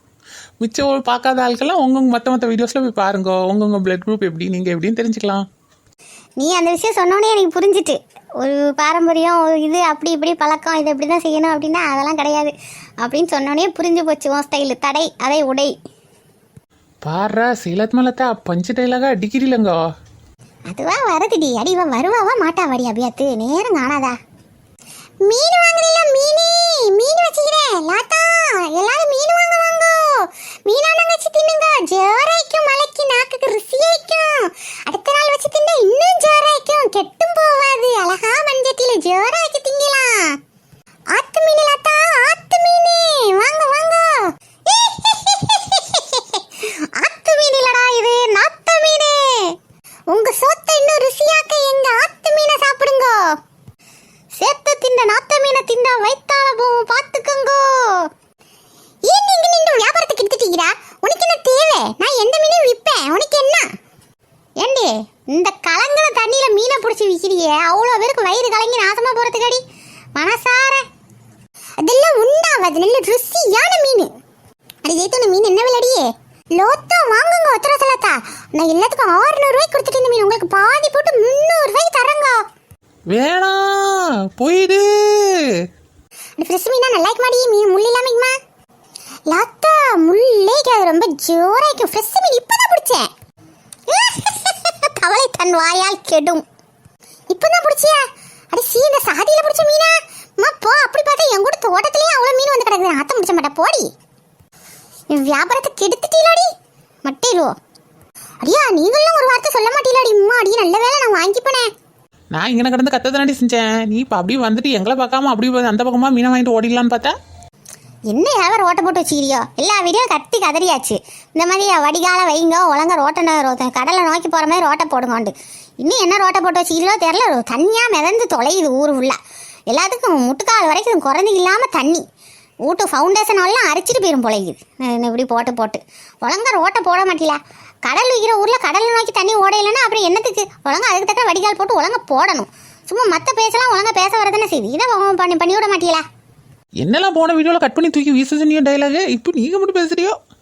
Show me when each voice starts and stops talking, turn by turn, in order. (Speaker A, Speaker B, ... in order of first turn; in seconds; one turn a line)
Speaker A: 0.6-5.4
Speaker B: 6.4-15.7
Speaker A: 17.0-19.8
Speaker B: 20.7-24.1
Speaker B: 25.2-40.4
Speaker B: 41.1-49.5
Speaker B: 50.1-53.2
Speaker B: 54.3-58.0
Speaker B: 59.1-63.6
Speaker B: 64.6-69.6
Speaker B: 70.2-70.8
Speaker B: 71.8-74.1
Speaker B: 74.8-82.3
Speaker A: 83.1-85.4
Speaker B: 86.4-88.3
Speaker B: 89.3-93.1
Speaker B: 93.9-96.4
Speaker B: 97.3-103.9
Speaker B: 105.1-106.5
Speaker B: 107.0-107.5
Speaker B: 108.4-111.7
Speaker A: 112.3-117.1
Speaker B: 118.1-129.2
Speaker B: 129.7-132.0
Speaker B: 132.7-146.0
Speaker A: 146.8-150.1